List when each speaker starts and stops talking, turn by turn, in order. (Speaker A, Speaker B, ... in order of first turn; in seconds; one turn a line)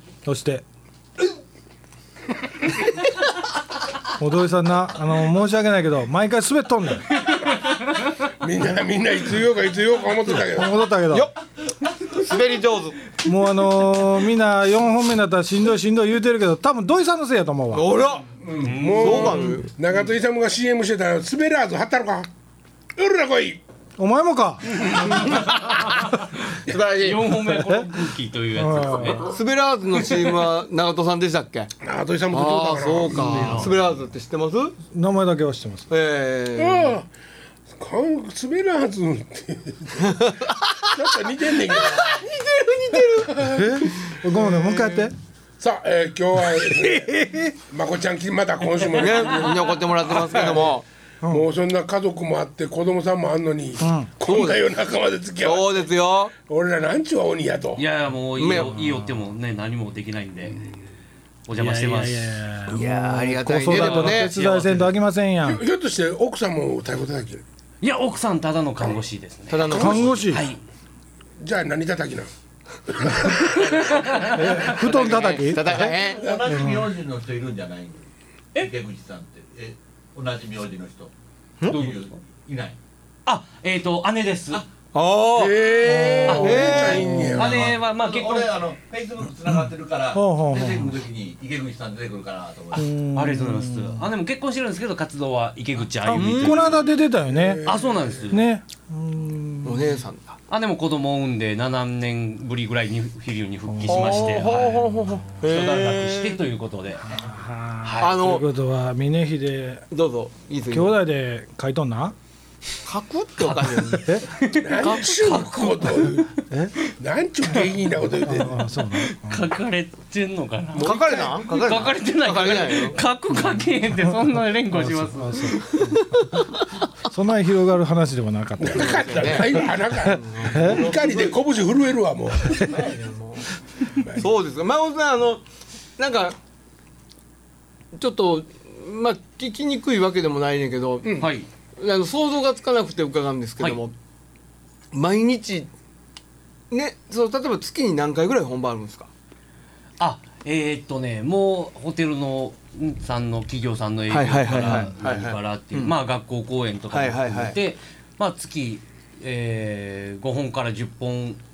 Speaker A: 0.2-0.6
Speaker A: 4.2-7.1
Speaker B: 8.4-10.9
Speaker A: 10.4-11.3
Speaker C: 12.1-13.0
Speaker A: 13.2-17.9
Speaker C: 17.7-18.3
Speaker B: 18.4-22.3
Speaker D: 18.6-19.6
Speaker C: 18.9-19.7
Speaker B: 22.9-23.6
Speaker A: 24.0-24.9
Speaker B: 24.7-25.4
Speaker D: 25.6-29.3
Speaker C: 26.6-27.4
Speaker A: 27.5-27.9
Speaker A: 28.6-29.3
Speaker C: 29.2-31.7
Speaker D: 30.1-30.4
Speaker B: 31.8-33.7
Speaker C: 32.3-34.8
Speaker D: 33.2-33.7
Speaker A: 33.4-33.7
Speaker A: 34.9-35.9
Speaker C: 35.9-36.9
Speaker B: 36.6-37.1
Speaker B: 37.7-40.3
Speaker C: 40.0-40.9
Speaker B: 40.9-42.3
Speaker C: 41.6-45.1
Speaker B: 43.1-43.8
Speaker A: 43.5-45.1
Speaker B: 45.6-50.7
Speaker A: 46.4-47.5
Speaker C: 48.9-50.9
Speaker B: 51.2-57.8
Speaker A: 53.8-54.1
Speaker C: 54.2-54.7
Speaker C: 55.4-56.3
Speaker D: 57.8-60.6
Speaker C: 58.3-58.8
Speaker D: 61.5-62.3
Speaker A: 61.5-65.6
Speaker C: 62.6-64.3
Speaker D: 63.6-64.9
Speaker B: 65.4-67.4
Speaker D: 67.8-70.6
Speaker C: 69.5-70.2
Speaker A: 69.6-70.5
Speaker B: 71.4-72.3
Speaker B: 72.9-74.0
Speaker D: 73.2-75.5
Speaker A: 74.3-75.9
Speaker C: 74.6-76.2
Speaker E: 75.9-81.1
Speaker B: 76.3-76.5
Speaker E: 81.7-82.8
Speaker D: 81.7-82.0
Speaker D: 83.2-84.6
Speaker C: 84.9-87.3
Speaker B: 85.3-87.8
Speaker A: 85.8-87.6
Speaker D: 86.2-88.6
Speaker E: 87.6-92.9
Speaker A: 89.5-91.0
Speaker A: 92.7-94.0
Speaker D: 93.1-96.7
Speaker A: 96.0-97.6
Speaker C: 96.1-96.7
Speaker B: 97.3-98.2
Speaker D: 97.6-98.4
Speaker A: 98.3-100.0
Speaker C: 99.6-100.4
Speaker D: 100.5-104.8
Speaker A: 103.7-105.2
Speaker C: 103.9-106.4
Speaker D: 105.4-107.2
Speaker A: 107.1-109.8
Speaker D: 107.8-108.2
Speaker C: 108.0-108.5
Speaker C: 109.9-111.0
Speaker A: 110.7-112.2
Speaker C: 112.8-114.2
Speaker D: 113.4-116.3
Speaker B: 114.5-116.3
Speaker B: 116.9-118.7
Speaker A: 118.2-119.5
Speaker D: 118.9-125.9
Speaker C: 120.7-123.0
Speaker A: 124.7-126.1
Speaker C: 125.7-126.6
Speaker A: 127.0-129.6
Speaker B: 128.6-132.9
Speaker C: 128.7-131.3
Speaker A: 130.4-130.9
Speaker C: 132.6-133.5
Speaker B: 133.9-134.2
Speaker C: 134.0-135.4
Speaker C: 136.0-136.3
Speaker C: 137.9-141.2
Speaker B: 141.0-141.3
Speaker D: 141.2-141.5
Speaker C: 141.8-143.9
Speaker C: 144.9-145.7
Speaker C: 146.7-149.1
Speaker D: 150.0-161.4
Speaker C: 154.1-155.9
Speaker C: 156.9-157.6